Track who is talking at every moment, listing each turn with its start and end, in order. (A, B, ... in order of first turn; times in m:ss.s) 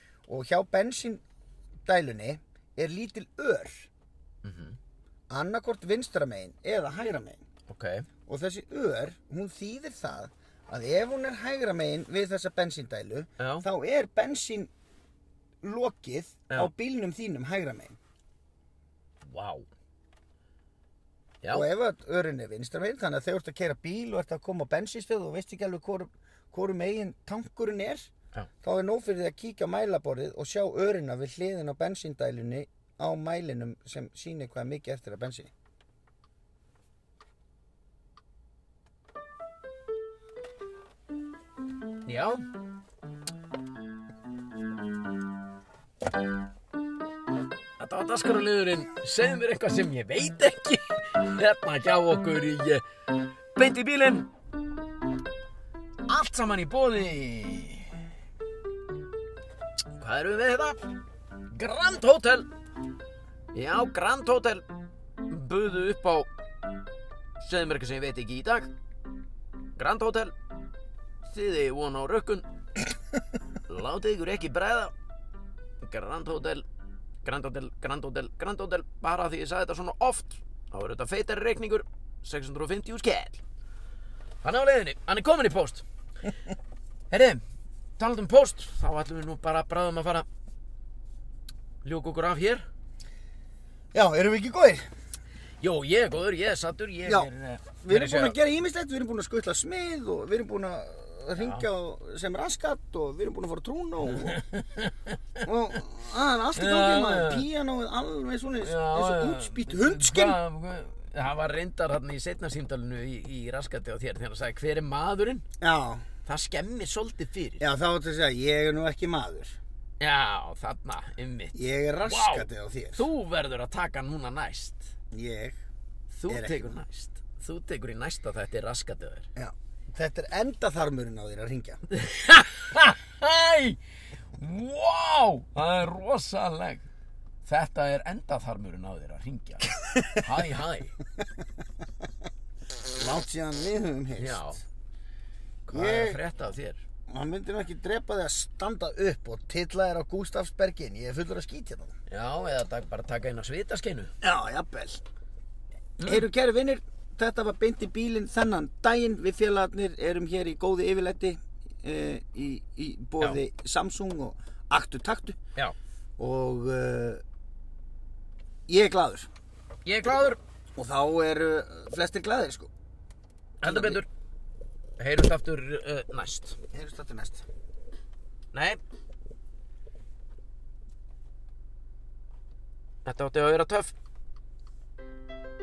0:00.3-0:01.2 A
0:01.8-0:03.9 A
0:04.4-0:04.8 B
0:05.3-0:07.4 A
0:07.7-0:08.1 B
0:08.3-0:14.7 A
0:13.4-0:13.7 B
0:15.6-0:18.0 A
0:19.2-0:19.6 B
0:21.4-0:21.7 B
0:21.5-0:28.1 A
0:28.6-0:35.5 A
0:42.0-0:42.4 B
0:47.8-0:52.8 B
0:53.5-0:54.3 B
0:56.1-0:57.9 B
1:00.0-1:00.8 B
1:01.5-1:02.5 B
1:03.5-1:04.6 B
1:05.2-1:06.3 B
1:07.4-1:08.7 B
1:09.8-1:10.3 B
1:11.2-1:12.4 B
1:13.7-1:14.9 B
1:15.8-1:16.6 B
1:17.2-1:23.4 B
1:24.4-1:25.8 B
1:27.1-1:27.4 B
1:28.0-1:30.2 B
1:31.8-1:32.6 B
1:33.9-1:34.9 A
1:35.6-1:38.4 B
1:37.0-1:37.3 A
1:37.8-1:44.4 A
1:41.4-1:41.6 B
1:44.1-1:45.2 B
1:45.4-1:50.4 A
1:46.5-1:47.4 B
1:48.6-1:55.4 B
1:55.6-1:56.0 A
1:56.2-1:57.6 B
1:57.6-1:59.6 A
2:00.0-2:04.9 B
2:01.5-2:03.0 A
2:05.1-2:05.6 A
2:06.1-2:09.3 B
2:06.3-2:06.8 A
2:09.4-2:11.8 A
2:11.9-2:13.8 B
2:14.3-2:16.8 B
2:17.4-2:21.0 B
2:22.9-2:24.5 A
2:24.2-2:24.6 B
2:25.6-2:26.8 B
2:25.7-2:26.2 A
2:27.1-2:31.9 A
2:32.1-2:34.1 B
2:34.2-2:35.0 A
2:36.0-2:36.2 B
2:36.0-2:45.4 A
2:46.2-2:47.2 A
2:48.7-2:49.3 A
2:49.8-2:50.4 B
2:50.8-2:52.7 A
2:53.6-2:54.1 B
2:53.6-2:54.0 A
2:55.0-2:56.6 B
2:56.7-2:57.4 A
2:58.5-2:58.8 B
3:03.0-3:03.9 B